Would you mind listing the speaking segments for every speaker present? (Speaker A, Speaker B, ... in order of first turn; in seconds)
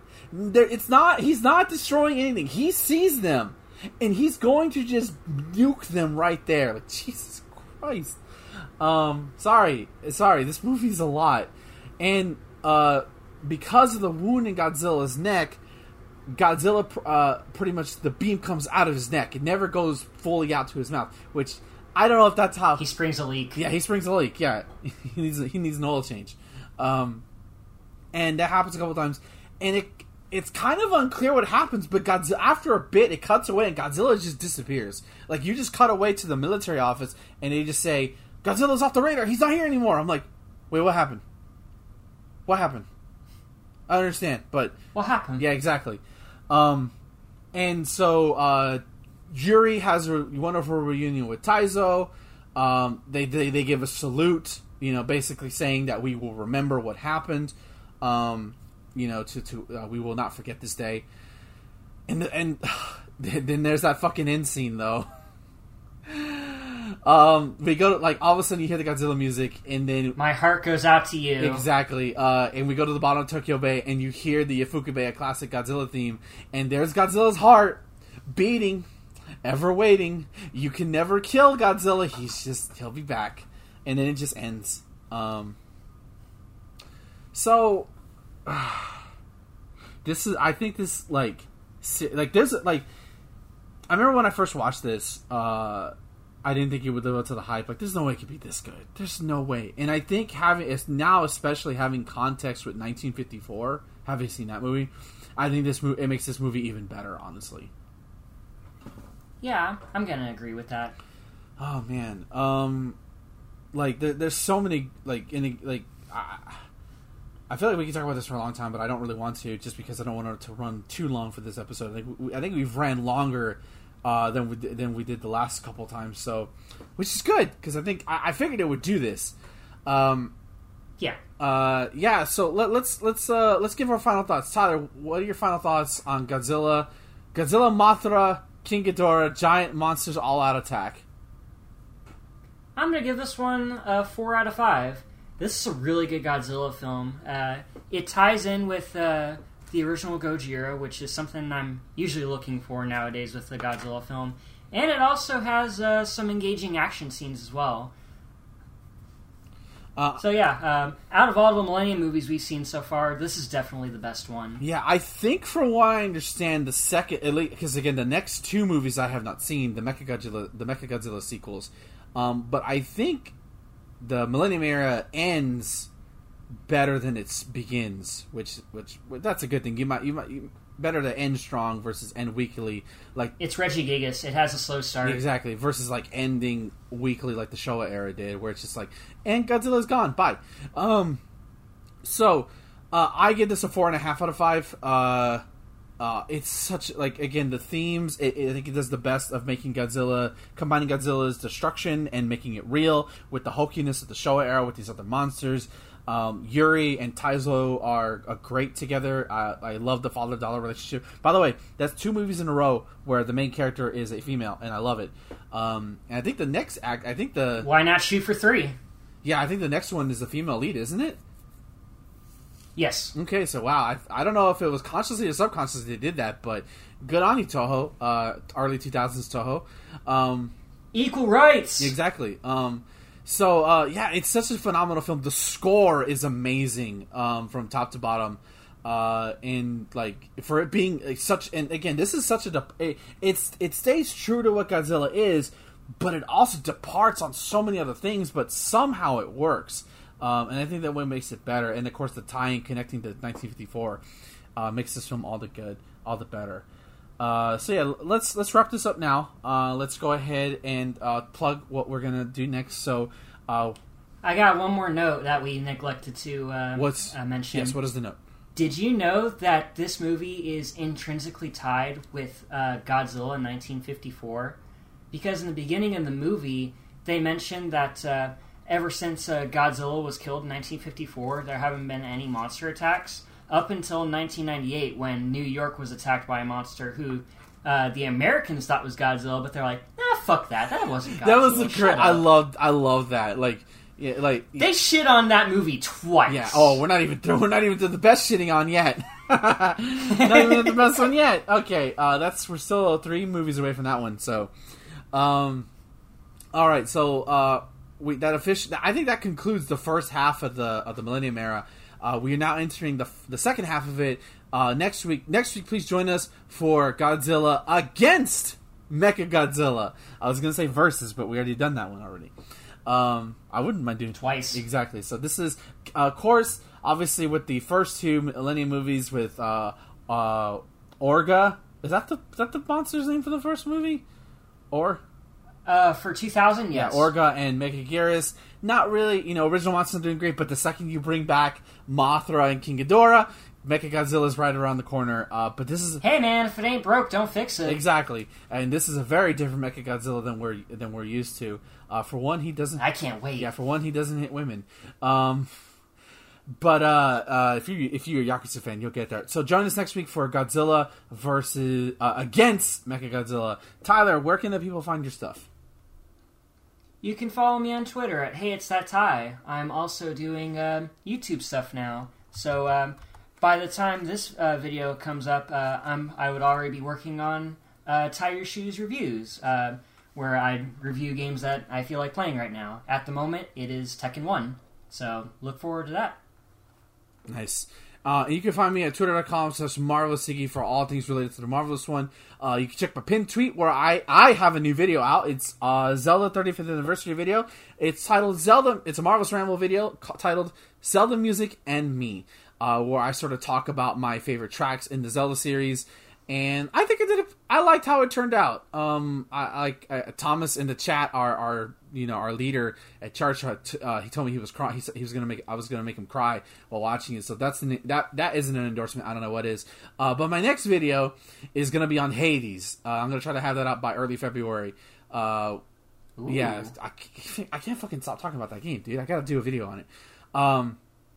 Speaker A: 0.3-8.2, 8.8-15.6, 16.3-22.9, 23.6-27.2, 28.1-41.2, 42.5-42.9, 43.9-44.8, 45.4-46.9, 47.5-61.0, 62.1-65.1, 66.1-70.2, 71.4-78.9, 79.4-85.6, 87.3-87.9, 88.5-89.0, 90.0-92.8, 93.9-95.9, 96.4-107.7, 111.6-113.0, 113.7-116.6, 117.5-129.3, 129.8-130.3, 131.4-141.0, 160.0-160.2, 164.6-173.3, 174.0-175.9, 176.7-183.3, 185.0-191.2, 192.0-195.4, 196.0-217.7, 219.2-221.2, 223.1-230.5, 231.8-254.0, 254.6-256.6, 257.2-263.8, 266.8-268.2, 291.2-294.7, 296.3-304.5, 305.1-305.7, 306.5-322.3, 322.9-334.0, 334.7-335.0, 336.7-346.0, 347.6-352.8, 353.4-355.5, 356.6-365.5, 387.3-425.6, 426.2-430.8
Speaker B: 22.8-23.6, 44.9-45.4, 70.2-71.7, 109.4-111.0, 142.8-157.9, 160.2-164.6, 183.4-185.2, 217.6-218.8, 222.7-223.1, 230.9-231.9, 264.2-267.8, 268.5-274.6, 275.1-292.3, 294.6-296.8, 300.1-301.1, 324.2-324.6, 335.6-337.1, 346.0-347.8, 352.8-353.5, 367.0-386.2, 426.2-426.7